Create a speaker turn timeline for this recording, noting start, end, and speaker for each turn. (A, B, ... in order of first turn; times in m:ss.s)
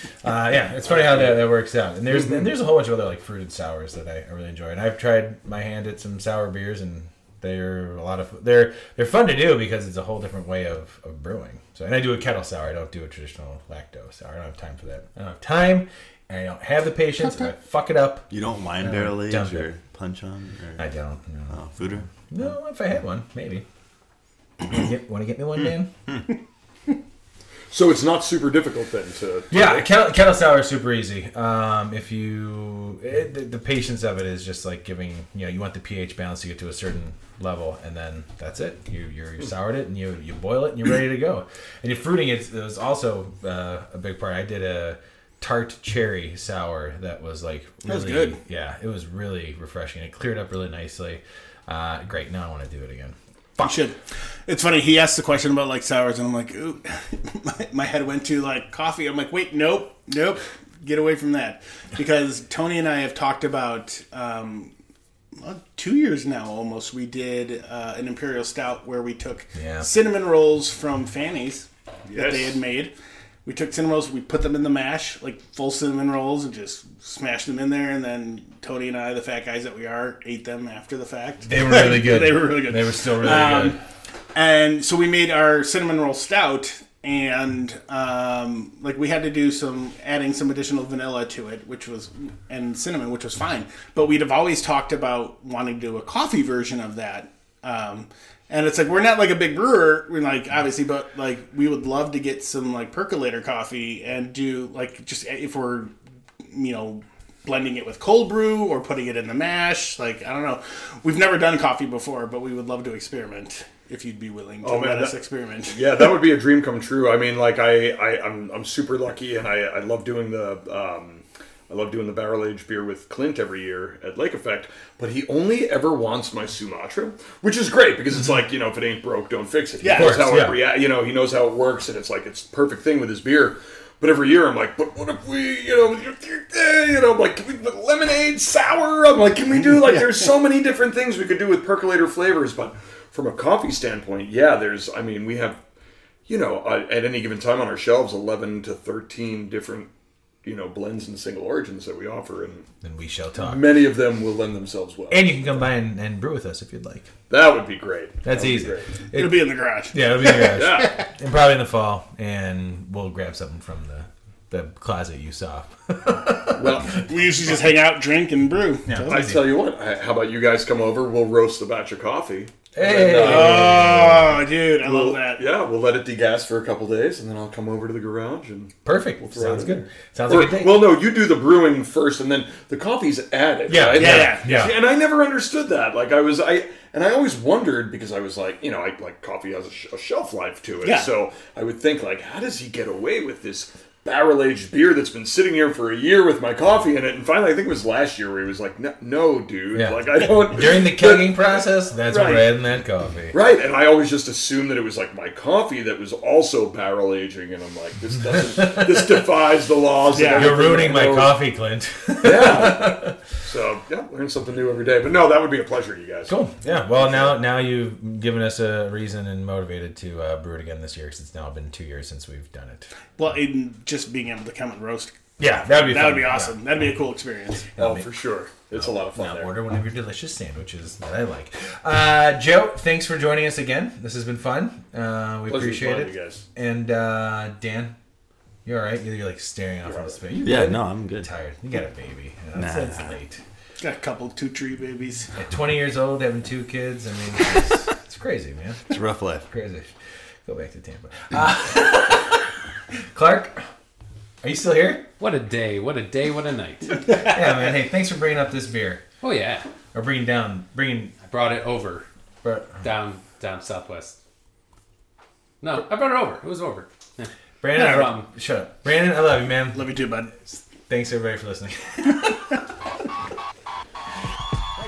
0:00.2-0:18.3 A
0:00.8-0:01.4 B
0:18.3-0:20.9 C
0:18.8-0:19.7 A
0:20.8-0:23.6 A
0:21.5-0:22.1 C
0:24.6-0:25.9 A
0:27.7-0:29.9 D
0:29.5-0:53.1 A
0:47.8-0:48.4 E
0:53.6-1:04.7 E
1:05.4-1:12.9 E
1:09.5-1:09.9 A
1:12.1-1:12.6 D
1:13.4-1:23.8 E
1:21.4-1:23.8 A
1:24.3-1:45.9 E
1:46.5-1:56.0 E
1:54.6-2:25.6 D
2:09.8-2:10.2 E
2:09.9-2:10.5 A
2:26.3-2:29.9 D
2:30.4-2:32.6 D
2:32.8-2:33.7 A
2:33.4-2:35.4 D
2:35.1-2:37.1 A
2:37.3-2:38.9 D
2:38.2-2:46.8 A
2:39.1-2:40.4 E
2:40.5-2:41.0 D
2:46.5-2:47.6 D
2:46.8-2:49.2 E
2:48.9-2:49.5 A
2:49.1-2:54.1 D
2:52.7-2:54.4 A
2:53.0-2:53.2 B
2:53.2-2:55.4 E
2:54.8-3:21.4 D
2:58.8-3:00.9 A
3:03.7-3:04.8 A
3:03.9-3:04.5 E
3:10.8-3:11.1 E
3:19.7-3:23.4 A
3:22.0-3:22.5 D
3:23.3-3:31.4 D
3:28.3-3:29.2 A
3:30.1-3:30.6 E
3:30.3-3:33.2 A
3:32.2-3:36.4 D
3:36.3-3:42.9 A
3:36.9-3:37.4 D
3:43.2-3:47.7 E
3:45.4-3:46.6 A
3:47.8-3:48.1 A
3:47.8-3:49.5 D
3:48.7-3:57.9 A
3:55.5-3:56.4 D
3:58.6-4:03.4 A
3:59.8-4:00.2 D
4:00.4-4:01.3 C
4:02.5-4:03.2 C
4:03.8-4:05.3 E
4:05.4-4:08.8 A
4:08.9-4:09.4 C
4:09.5-4:09.9 A
4:10.4-4:12.5 A
4:13.1-4:13.6 A
4:14.4-4:15.1 A
4:15.2-4:17.2 B
4:17.0-4:19.0 A
4:19.2-4:19.6 B
4:19.9-4:21.1 A
4:21.2-4:22.1 B
4:22.4-4:22.8 A
4:22.7-4:24.2 B
4:25.6-4:27.3 B
4:27.6-4:32.6 A
4:27.8-4:28.3 B
4:29.7-4:30.3 E